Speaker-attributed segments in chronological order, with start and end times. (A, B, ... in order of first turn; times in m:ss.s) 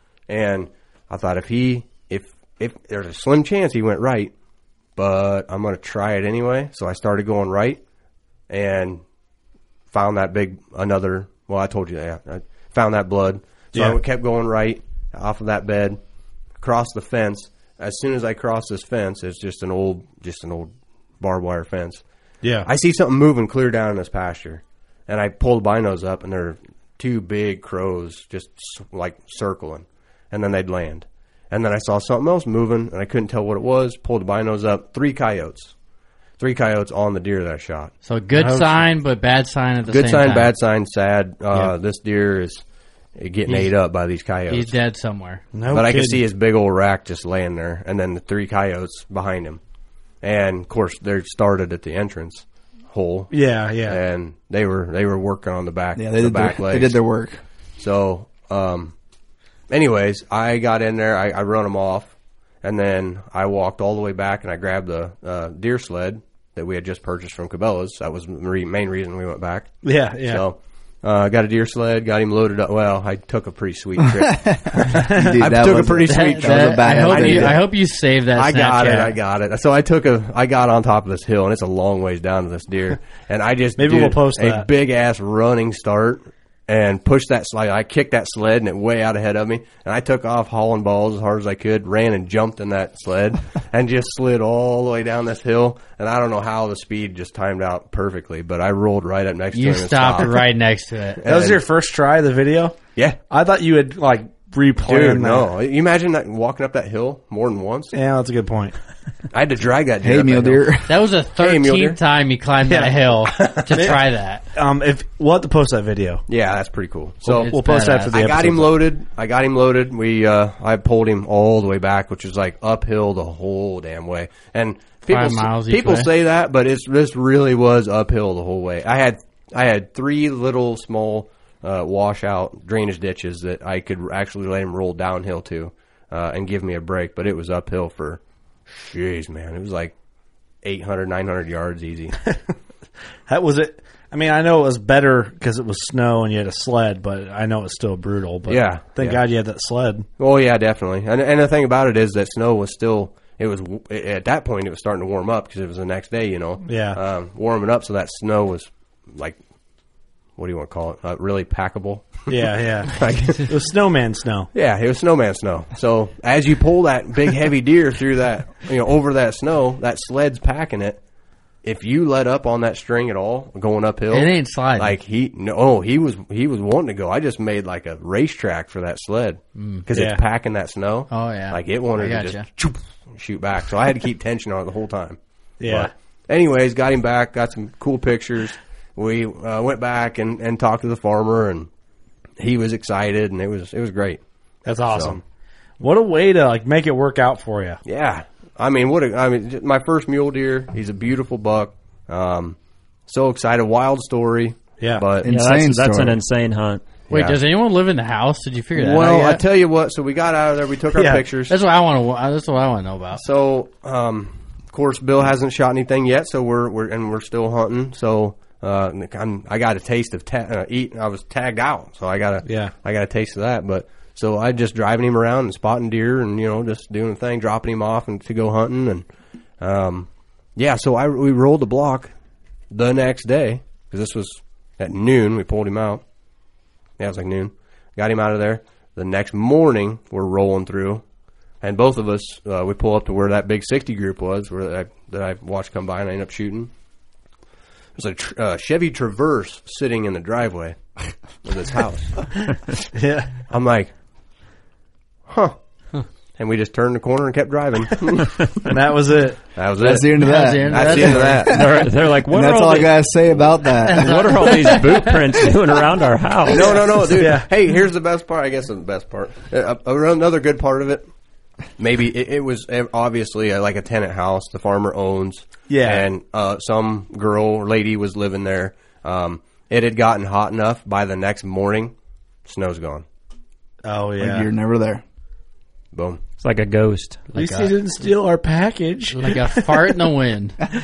0:00.3-0:04.3 A
0:05.0-0:07.8 A
0:08.5-0:09.0 A
0:09.9-0:16.0 A
0:16.6-0:22.0 A
0:22.6-0:35.7 A
0:36.4-0:37.9 A
0:38.0-0:40.5 B
0:38.4-0:38.9 C
0:39.9-0:42.6 A
0:43.2-0:44.7 A
0:43.4-0:43.7 B
0:44.5-0:45.4 B
0:45.5-0:46.2 C
0:45.7-0:49.6 A
0:50.2-0:57.0 A
0:53.3-0:54.0 C
0:56.0-0:57.4 D
0:57.8-0:58.9 A
0:59.7-1:17.5 A
1:09.8-1:10.4 C
1:14.1-1:17.6 D
1:15.0-1:15.4 C
1:16.1-1:19.1 B
1:16.8-1:17.5 C
1:18.3-1:40.5 A
1:23.8-1:24.7 C
1:39.5-1:41.2 B
1:41.2-1:41.6 A
1:41.2-1:42.8 C
1:43.3-1:45.5 C
1:44.8-1:47.9 A
1:47.9-1:48.8 C
1:49.3-1:50.7 A
1:50.0-1:51.0 D
1:50.9-1:54.4 B
1:51.4-1:52.0 A
1:52.7-1:54.0 C
1:53.4-1:53.6 A
1:54.5-1:56.2 C
1:56.3-1:57.5 A
1:57.2-1:58.8 C
1:57.4-1:58.2 B
1:58.1-2:19.9 A
2:05.1-2:06.1 B
2:20.6-2:22.2 A
2:22.2-2:22.5 C
2:23.3-2:30.0 C
2:28.5-2:29.2 A
2:30.2-2:39.4 A
2:36.6-2:37.0 C
2:40.4-2:43.5 A
2:42.3-2:44.5 C
2:44.5-2:51.0 A
2:51.6-3:11.7 A
2:54.1-2:54.9 B
2:59.6-2:59.8 B
2:59.9-3:00.2 C
3:01.1-3:02.4 B
3:05.6-3:05.9 C
3:12.4-3:14.2 A
3:14.6-3:15.2 C
3:14.9-3:15.2 A
3:15.8-3:17.8 C
3:17.8-3:22.6 A
3:23.1-3:25.3 A
3:24.8-3:25.0 C
3:25.2-3:26.2 D
3:25.2-3:27.0 E
3:27.1-3:29.4 B
3:27.1-3:27.4 A
3:28.7-3:31.6 A
3:30.9-3:31.2 C
3:31.5-3:33.2 B
3:33.2-3:49.0 A
3:42.4-3:42.7 C
3:49.6-3:52.1 A
3:52.7-3:56.0 A
3:57.0-4:01.0 A
4:01.6-4:06.7 A
4:08.0-4:10.9 A
4:11.4-4:12.3 A
4:12.9-4:13.3 C
4:13.5-4:13.9 A
4:15.3-4:15.6 A
4:16.4-4:18.5 A
4:18.6-4:19.4 C
4:19.6-4:21.5 A
4:19.8-4:24.8 D
4:20.2-4:21.4 B
4:21.5-4:23.2 E
4:23.8-4:25.2 B
4:23.9-4:26.7 E
4:26.5-4:31.1 A
4:27.1-4:27.5 C
4:31.8-4:41.9 A
4:35.7-4:36.1 C
4:42.4-4:43.0 A
4:43.8-4:44.5 C
4:44.2-4:45.0 D
4:45.9-4:46.2 A
4:46.4-4:47.3 E
4:47.3-4:47.7 B
4:47.3-4:49.7 C
4:49.1-4:50.6 B